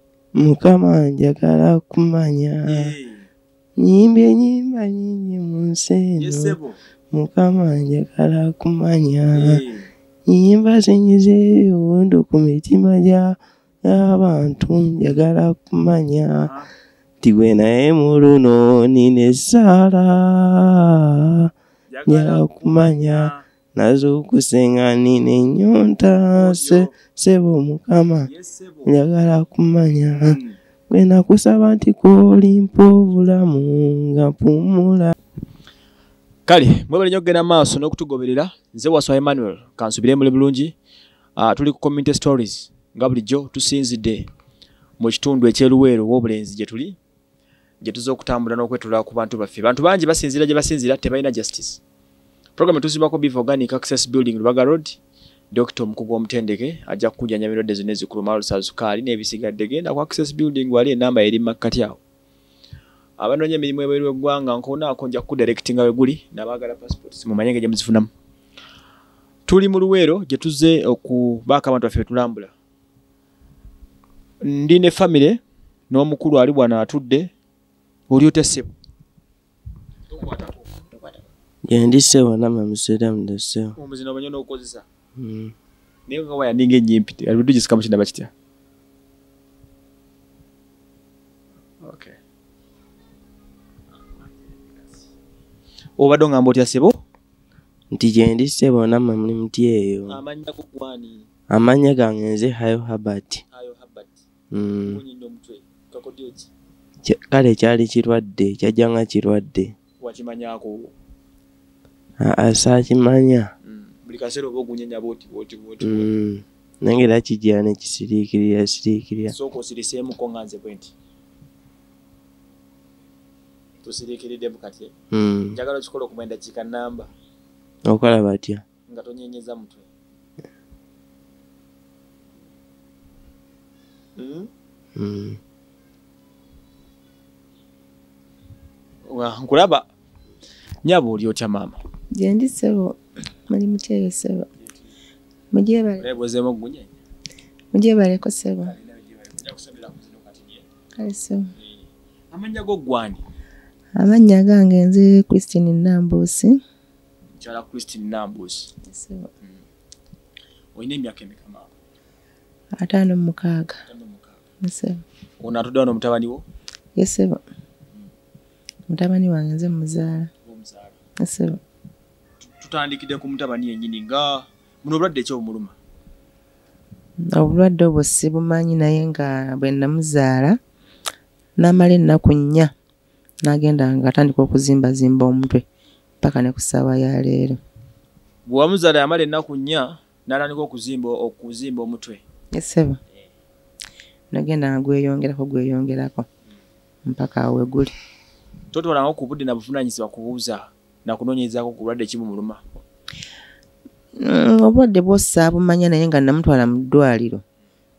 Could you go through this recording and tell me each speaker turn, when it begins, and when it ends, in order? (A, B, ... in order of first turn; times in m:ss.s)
0:00.3-0:03.0 A
0:02.7-0:03.3 B
0:03.8-0:06.6 A
0:06.2-0:06.8 B
0:07.1-0:09.6 A
0:09.3-0:09.9 B
0:10.3-0:16.5 A
0:16.4-0:16.7 B
0:17.2-0:21.5 A
0:21.9-0:23.4 B
0:22.1-0:28.3 A
0:26.3-0:26.9 B
0:28.2-0:29.0 B
0:28.8-0:30.4 A
0:30.2-0:30.6 B
0:30.9-0:35.1 A
0:36.5-0:40.7 B
0:41.4-0:44.3 B
0:45.0-0:47.0 B
0:47.8-0:51.8 B
0:52.6-0:55.0 B
0:55.5-1:02.0 B
1:03.2-1:08.1 B
1:09.5-1:12.5 B
1:14.4-1:15.4 B
1:15.9-1:17.3 B
1:18.1-1:18.7 B
1:20.1-1:20.6 B
1:21.7-1:23.8 A
1:23.8-1:24.8 B
1:25.2-1:25.5 A
1:26.1-1:28.3 B
1:31.8-1:32.2 B
1:34.1-1:35.0 B
1:36.0-1:37.0 B
1:37.9-1:40.2 A
1:40.1-1:41.2 B
1:41.5-1:43.4 A
1:43.5-1:44.2 B
1:44.5-1:45.0 A
1:44.9-1:46.5 B
1:47.0-1:49.7 A
1:50.0-1:50.9 B
1:52.2-1:53.5 A
1:53.6-1:56.1 B
1:55.8-1:59.3 A
1:59.3-2:00.9 B
2:03.8-2:04.9 B
2:05.1-2:05.6 A
2:05.5-2:07.1 B
2:07.8-2:08.6 A
2:08.9-2:09.8 B
2:14.2-2:14.5 B
2:15.0-2:15.4 A
2:19.1-2:19.8 B
2:20.8-2:21.8 B
2:22.1-2:24.5 C
2:25.5-2:26.1 C
2:26.0-2:26.9 B
2:27.7-2:28.7 C
2:28.6-2:30.6 B
2:31.0-2:31.5 C
2:31.6-2:33.2 B
2:34.0-2:36.6 C
2:37.4-2:38.7 B
2:38.8-2:39.3 C
2:40.8-2:41.7 B
2:42.8-2:43.8 C
2:43.9-2:44.4 B
2:44.6-2:45.0 C
2:45.4-2:46.4 B
2:47.0-2:47.4 C
2:48.9-2:50.3 C
2:50.4-2:51.0 B
2:51.2-2:51.6 C
2:52.4-2:55.8 B
2:57.3-3:00.6 C
3:01.6-3:02.7 C
3:03.4-3:05.6 C
3:06.2-3:07.6 C
3:08.5-3:12.2 B
3:12.5-3:13.0 C
3:14.3-3:16.2 C
3:17.0-3:17.9 C
3:18.7-3:22.6 B
3:24.2-3:27.4 C